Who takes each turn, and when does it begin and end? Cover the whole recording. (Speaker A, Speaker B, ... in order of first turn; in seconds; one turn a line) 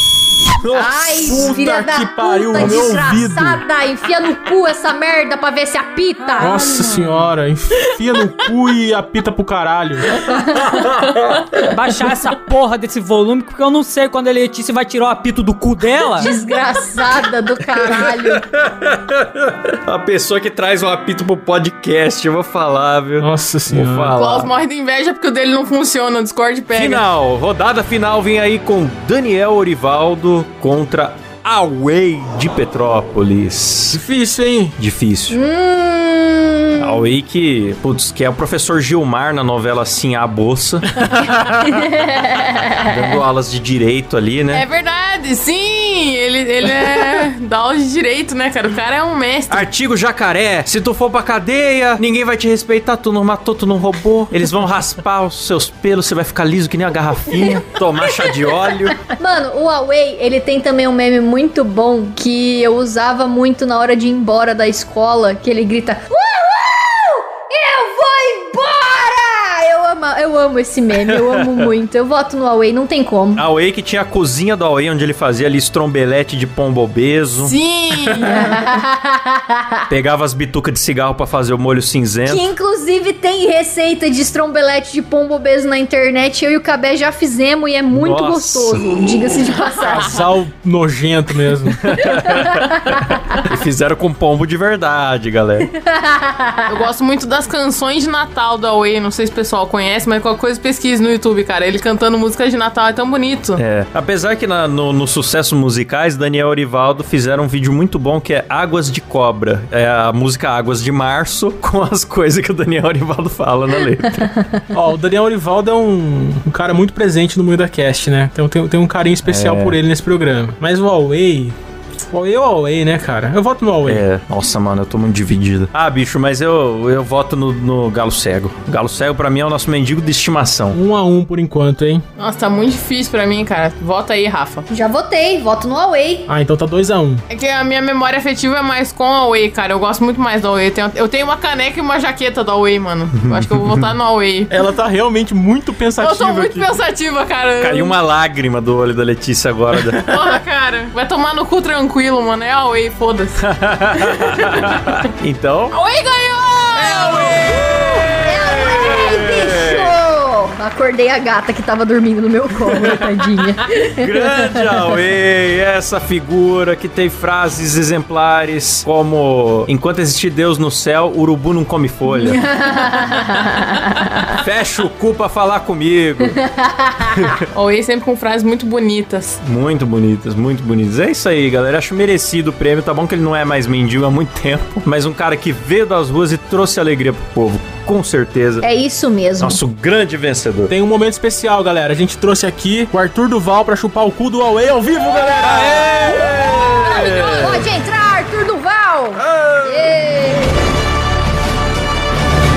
Speaker A: 0.5-1.5
Speaker B: 0.7-6.6
Speaker C: 1.2-3.6
Speaker D: 6.3-6.9
Speaker C: 6.4-10.1
Speaker A: 10.5-11.6
Speaker D: 11.7-16.3
Speaker B: 16.2-18.4
Speaker A: 17.8-24.5
Speaker C: 23.2-24.2
Speaker E: 24.1-27.0
Speaker A: 26.7-34.0
Speaker C: 33.9-34.8
Speaker A: 34.8-35.4
Speaker B: 35.3-37.1
Speaker A: 36.8-41.9
Speaker B: 41.8-42.7
Speaker A: 42.7-44.6
Speaker E: 44.5-49.7
Speaker A: 49.5-59.0
Speaker B: 59.0-73.5
Speaker A: 71.1-71.7
Speaker A: 73.3-77.6
Speaker E: 77.4-78.6
Speaker B: 78.3-79.8
Speaker A: 79.9-82.4
Speaker B: 82.3-90.2
Speaker A: 87.9-88.9
Speaker C: 89.8-91.8
Speaker A: 91.8-95.7
Speaker B: 92.0-93.4
Speaker B: 95.8-96.7
Speaker E: 96.7-103.6
Speaker A: 103.6-114.3
Speaker B: 114.2-114.5
Speaker C: 114.7-124.0
Speaker A: 119.2-119.8
Speaker A: 123.9-130.8
Speaker C: 130.7-132.0
Speaker E: 132.2-134.7
Speaker B: 134.7-136.3
Speaker C: 136.3-137.2
Speaker E: 137.3-144.5
Speaker A: 143.2-143.9
Speaker C: 144.5-146.7
Speaker E: 146.0-148.0
Speaker A: 147.6-150.1
Speaker E: 150.0-153.4
Speaker A: 153.4-155.7
Speaker E: 155.7-157.4
Speaker A: 156.8-159.9
Speaker B: 158.2-164.6
Speaker A: 162.6-163.1
Speaker A: 163.8-172.4
Speaker B: 172.1-174.3
Speaker A: 174.3-176.4
Speaker B: 176.4-177.3
Speaker A: 177.0-177.5
Speaker E: 177.5-179.4
Speaker A: 179.4-188.7
Speaker B: 188.6-189.6
Speaker A: 189.4-190.7
Speaker C: 190.7-196.0
Speaker A: 195.3-197.7
Speaker B: 196.2-200.6
Speaker A: 199.2-200.0